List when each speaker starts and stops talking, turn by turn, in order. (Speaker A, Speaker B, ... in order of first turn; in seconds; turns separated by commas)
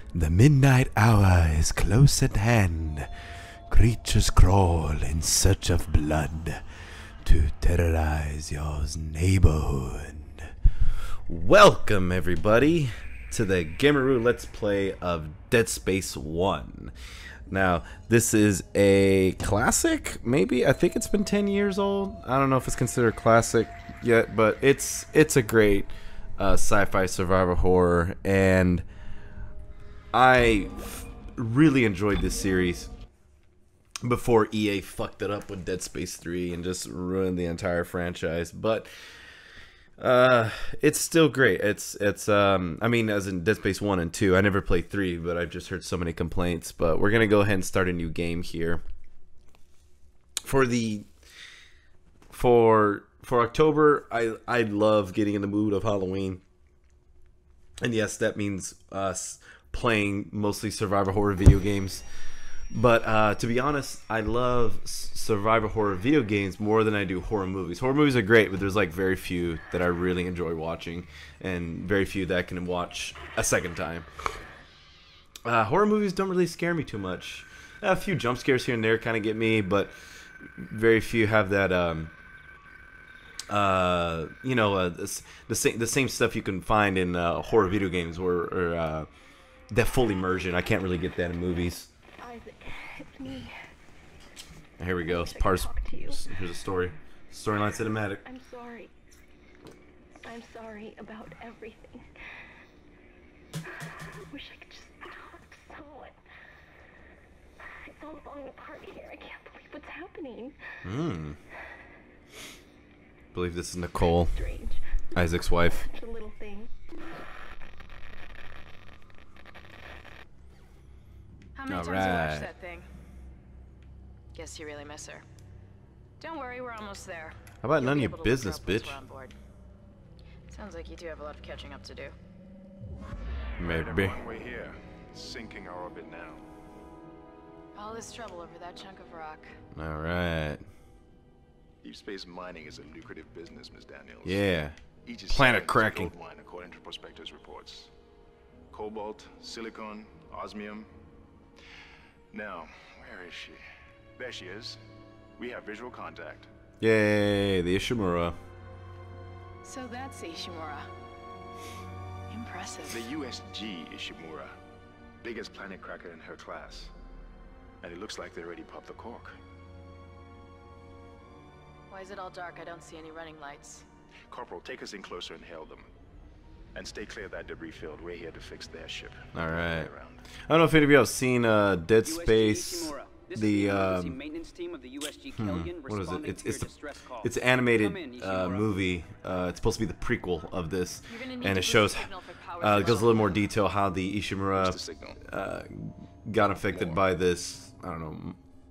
Speaker A: 0.1-3.1, Speaker A: 3.7-6.6, Speaker A: 7.2-10.5, Speaker A: 11.3-16.9, Speaker A: 17.5-28.9, Speaker A: 30.1-32.9, Speaker A: 34.0-38.9, Speaker A: 40.0-48.8, Speaker A: 50.4-51.1, Speaker A: 52.3-56.4, Speaker A: 57.8-62.0, Speaker A: 62.7-74.1, Speaker A: 75.4-82.1, Speaker A: 83.5-89.1, Speaker A: 89.7-91.9, Speaker B: 92.2-93.6, Speaker A: 94.8-98.2, Speaker B: 95.0-96.5, Speaker B: 97.8-98.9, Speaker B: 100.2-102.1, Speaker B: 104.3-106.2, Speaker B: 107.9-110.9, Speaker A: 110.8-111.4, Speaker A: 113.3-114.3, Speaker B: 114.0-116.7, Speaker A: 115.1-115.8, Speaker C: 121.5-122.9, Speaker A: 121.7-122.5, Speaker C: 124.3-125.2, Speaker C: 126.2-129.3, Speaker A: 127.6-129.0, Speaker C: 130.5-132.1, Speaker D: 133.6-136.4, Speaker A: 133.6-134.2, Speaker C: 137.7-139.6, Speaker A: 139.7-140.6, Speaker D: 141.8-144.4, Speaker A: 144.2-144.8, Speaker D: 145.0-147.9, Speaker A: 145.3-146.1, Speaker D: 148.7-150.9, Speaker D: 152.3-153.6, Speaker D: 154.2-154.8, Speaker D: 155.4-156.5, Speaker A: 156.8-158.3, Speaker C: 159.6-160.9, Speaker C: 162.3-163.1, Speaker D: 162.8-164.5, Speaker D: 165.2-166.9, Speaker D: 167.8-169.3, Speaker C: 171.9-173.8, Speaker D: 174.3-175.9, Speaker D: 176.7-180.3, Speaker A: 179.3-184.2, Speaker E: 182.0-188.7, Speaker A: 185.3-198.4, Speaker C: 191.1-193.5, Speaker D: 192.8-193.1, Speaker D: 194.5-195.2, Speaker D: 196.7-197.0